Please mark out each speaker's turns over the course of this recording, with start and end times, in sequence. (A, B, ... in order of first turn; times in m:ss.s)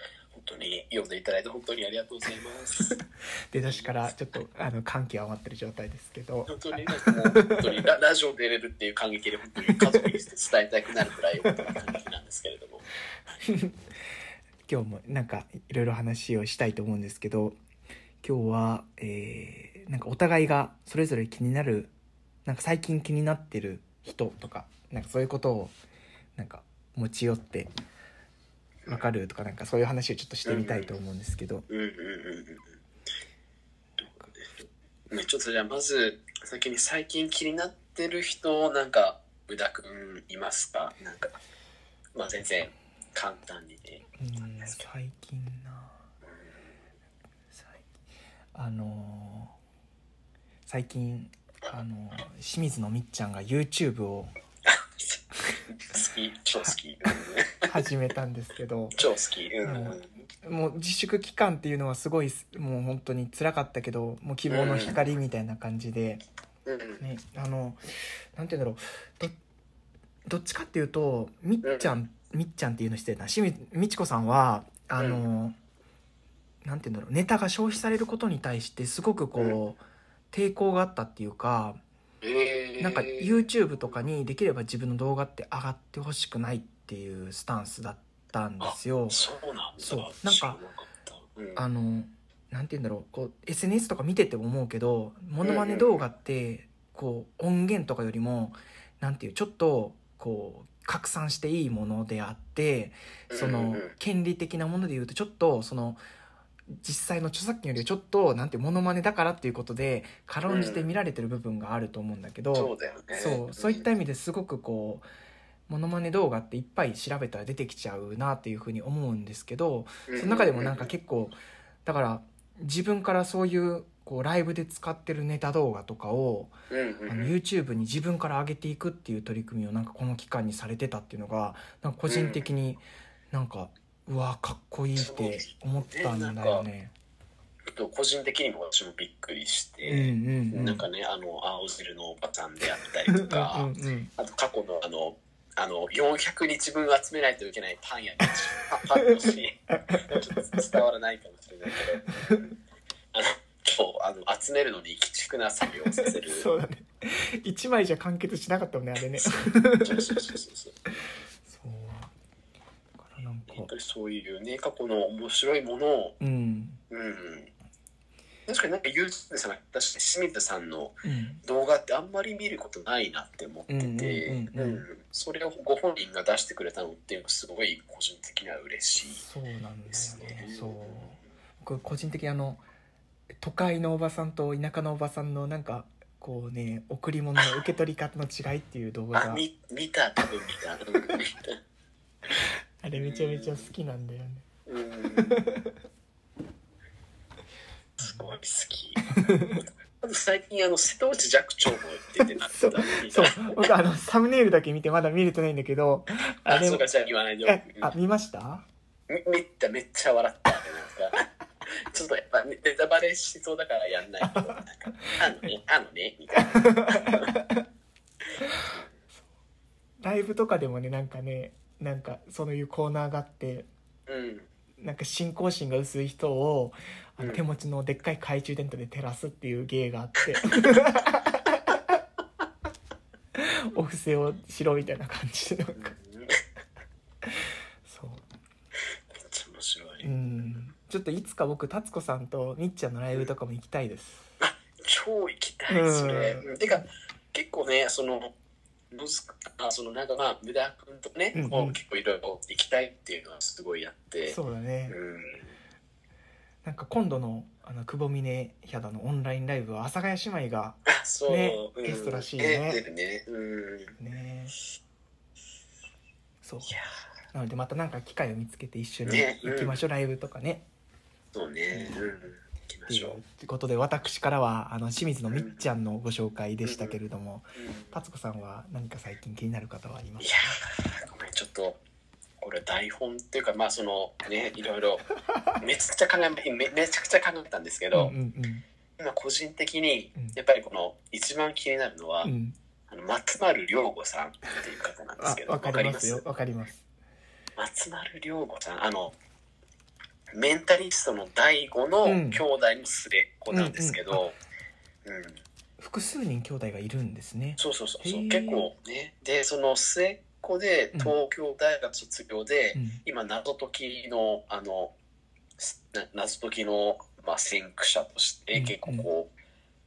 0:00.3-0:03.0 A
0:02.9-0:07.8 B
0:03.6-0:04.1 A
0:06.5-0:13.4 A
0:09.7-0:10.1 B
0:11.5-0:11.8 B
0:13.4-0:13.7 B
0:14.7-0:17.6 B
0:18.2-0:21.9 B
0:22.4-0:25.7 B
0:26.4-0:27.7 B
0:28.8-0:31.6 B
0:30.4-0:30.9 A
0:31.7-0:32.8 A
0:34.0-0:41.4 A
0:42.1-0:44.0 A
0:44.2-0:46.0 B
0:44.6-0:44.9 A
0:46.2-0:46.5 A
0:47.5-0:47.9 B
0:48.5-0:49.6 B
0:50.7-0:54.3 B
0:54.6-0:55.2 A
0:55.7-0:57.7 A
0:57.6-0:59.0 B
0:59.0-1:00.2 A
0:59.6-1:06.2 B
1:04.5-1:05.0 A
1:06.6-1:07.0 A
1:07.0-1:07.8 B
1:08.3-1:09.4 B
1:10.2-1:15.6 B
1:11.6-1:12.0 A
1:15.0-1:15.2 A
1:16.6-1:21.8 B
1:22.2-1:23.9 A
1:22.8-1:29.2 B
1:28.6-1:31.6 A
1:29.8-1:30.6 B
1:31.6-1:46.0 B
1:35.4-1:36.0 A
1:43.3-1:43.9 A
1:46.7-1:55.1 B
1:50.4-1:50.9 A
1:52.5-1:53.9 A
1:55.7-2:06.6 B
2:00.1-2:00.9 A
2:06.7-2:07.3 A
2:07.1-2:16.9 B
2:12.1-2:12.5 A
2:15.0-2:16.6 A
2:17.7-2:32.5 A
2:19.8-2:20.9 B
2:23.1-2:24.1 B
2:29.0-2:30.8 B
2:32.1-2:32.4 B
2:33.1-2:36.5 A
2:35.8-2:40.2 B
2:39.2-2:40.9 A
2:41.4-2:42.1 B
2:43.0-2:43.7 B
2:43.5-2:46.2 A
2:46.2-2:46.8 B
2:46.9-2:47.5 A
2:48.5-2:59.2 A
2:51.0-2:51.4 B
2:53.7-2:54.8 B
2:59.2-3:02.6 B
2:59.9-3:01.2 A
3:03.4-3:09.4 B
3:09.1-3:11.6 A
3:12.4-3:14.5 B
3:12.9-3:13.7 A
3:14.7-3:15.4 A
3:15.2-3:15.7 B
3:18.0-3:23.7 A
3:19.1-3:19.6 B
3:22.2-3:26.8 B
3:26.4-3:27.9 A
3:27.4-3:28.6 B
3:29.1-3:37.4 A
3:36.5-3:37.6 B
3:38.4-3:38.7 B
3:40.0-3:43.7 B
3:44.1-3:44.5 A
3:44.8-3:52.0 B
3:50.2-3:50.8 A
3:53.3-3:55.9 B
3:55.7-3:56.4 A
3:57.2-3:58.2 B
3:59.1-4:00.6 A
4:00.0-4:04.3 B
4:04.4-4:08.3 A
4:05.7-4:06.5 B
4:08.9-4:15.6 A
4:11.3-4:11.8 B
4:14.3-4:15.0 B
4:16.6-4:22.8 B
4:20.9-4:24.0 A
4:24.0-4:24.5 B
4:26.4-4:26.7 B
4:27.3-4:30.7 B
4:29.0-4:29.8 A
4:31.3-4:33.2 A
4:31.7-4:32.1 B
4:32.9-4:40.6 B
4:35.3-4:35.6 A
4:36.6-4:37.0 A
4:37.6-4:38.0 A
4:40.2-4:41.8 A
4:42.4-4:45.0 A
4:45.2-4:45.6 B
4:45.6-4:48.1 A
4:47.9-4:48.6 B
4:49.0-4:52.3 A
4:52.2-4:52.6 B
4:52.9-4:56.2 A
4:55.2-4:56.8 B
4:57.6-4:59.1 A
5:00.3-5:04.4 A
5:02.0-5:02.4 B
5:03.5-5:04.2 B
5:05.0-5:05.4 A
5:05.8-5:08.7 B
5:07.6-5:14.9 A
5:12.7-5:13.0 B
5:15.6-5:19.3 A
5:18.5-5:19.1 B